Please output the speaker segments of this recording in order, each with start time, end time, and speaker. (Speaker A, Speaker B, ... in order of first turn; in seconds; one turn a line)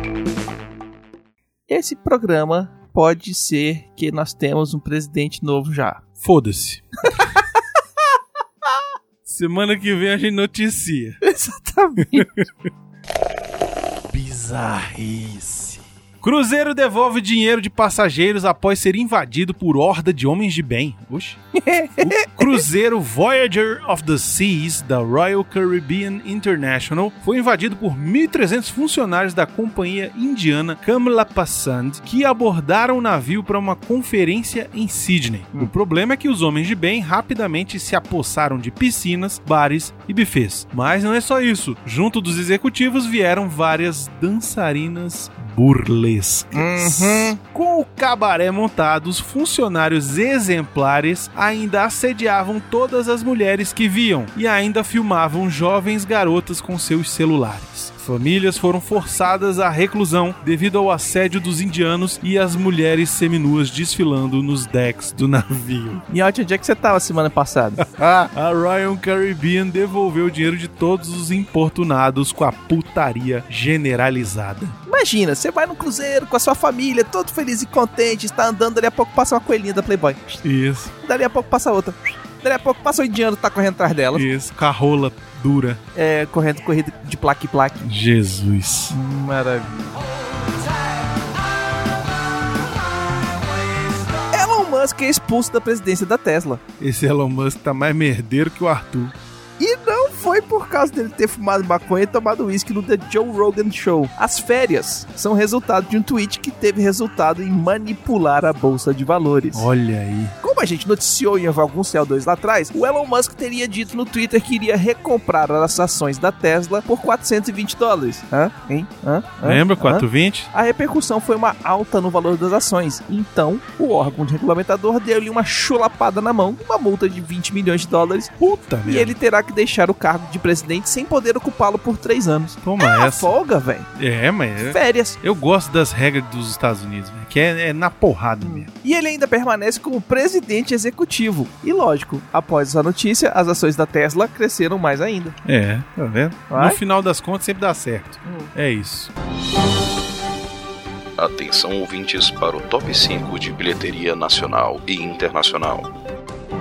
Speaker A: 1.7-6.0
Speaker B: 6.2-7.0
Speaker B: 9.2-11.2
Speaker A: 11.2-12.3
Speaker B: 12.0-12.5
Speaker B: 14.1-21.4
Speaker A: 21.5-22.6
Speaker B: 22.0-66.0
Speaker A: 46.5-47.4
Speaker A: 66.1-67.8
Speaker B: 67.8-74.8
Speaker A: 74.9-80.4
Speaker B: 80.4-80.9
Speaker A: 81.0-84.2
Speaker B: 84.1-85.8
Speaker A: 85.9-87.9
Speaker B: 87.8-89.0
Speaker A: 88.9-89.9
Speaker A: 94.3-96.6
Speaker B: 96.8-99.1
Speaker A: 99.6-109.7
Speaker B: 109.5-110.3
Speaker A: 110.4-128.3
Speaker B: 119.4-120.5
Speaker B: 128.4-129.1
Speaker A: 128.8-133.9
Speaker B: 132.6-133.3
Speaker B: 134.0-138.7
Speaker A: 134.6-135.2
Speaker A: 138.4-145.4
Speaker B: 145.4-149.1
Speaker A: 146.5-146.8
Speaker A: 148.2-148.5
Speaker C: 151.2-155.9